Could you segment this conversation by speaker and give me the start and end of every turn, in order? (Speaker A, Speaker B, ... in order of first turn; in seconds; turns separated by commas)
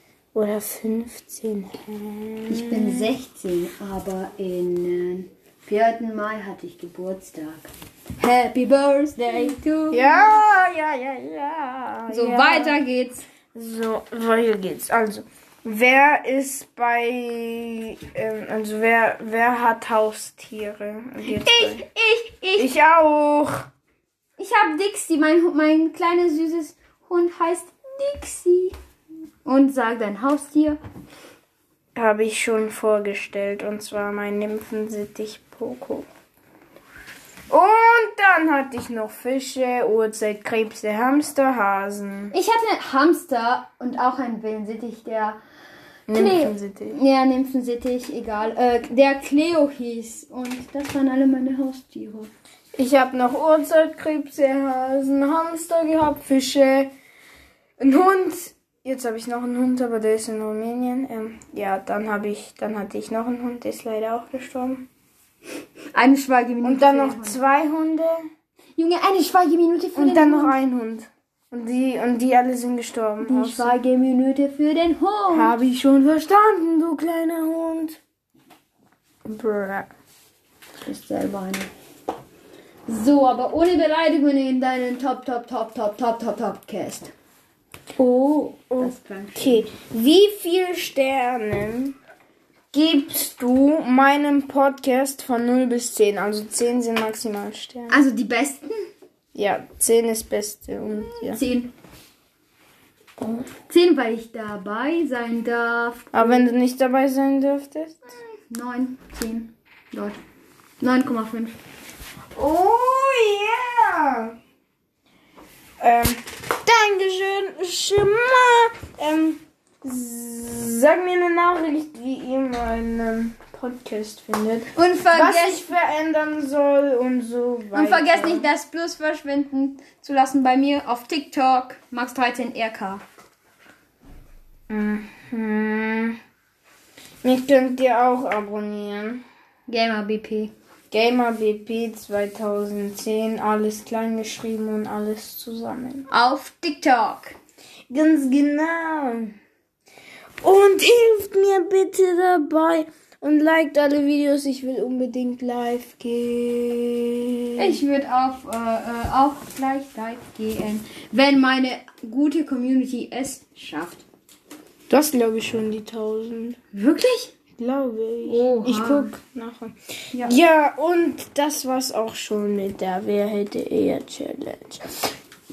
Speaker A: 0.3-3.1, Speaker B: 2.5-10.4, Speaker A: 9.2-12.8, Speaker B: 12.1-13.2, Speaker A: 13.5-21.9, Speaker B: 21.3-22.7, Speaker A: 22.6-23.7, Speaker B: 24.4-28.8, Speaker B: 29.4-30.8, Speaker A: 31.9-36.1, Speaker A: 37.5-42.3, Speaker B: 42.3-45.4, Speaker A: 46.1-47.0, Speaker B: 46.1-52.3, Speaker A: 52.8-56.9, Speaker A: 57.8-64.9, Speaker B: 65.9-67.4, Speaker A: 66.6-68.2, Speaker B: 68.8-70.6, Speaker A: 70.0-73.8, Speaker B: 73.2-75.5, Speaker A: 75.3-78.0, Speaker A: 79.3-79.9, Speaker B: 80.8-81.7, Speaker B: 82.9-87.1, Speaker A: 88.0-92.0, Speaker B: 88.7-89.6, Speaker A: 92.7-98.0, Speaker B: 97.9-98.9, Speaker A: 99.3-101.4, Speaker B: 101.1-101.7, Speaker B: 103.7-106.5, Speaker A: 106.1-108.2, Speaker B: 108.5-110.2, Speaker B: 110.8-111.6, Speaker A: 112.3-114.3, Speaker A: 115.8-128.5, Speaker B: 124.7-125.7, Speaker B: 127.7-133.0, Speaker A: 134.7-136.2, Speaker A: 137.2-139.2, Speaker B: 139.7-140.5, Speaker A: 140.9-146.1, Speaker B: 146.1-147.4, Speaker A: 147.9-149.3, Speaker A: 150.4-157.8, Speaker B: 157.6-164.1, Speaker A: 164.9-166.6, Speaker B: 166.7-167.3, Speaker A: 167.6-174.8, Speaker B: 168.2-169.1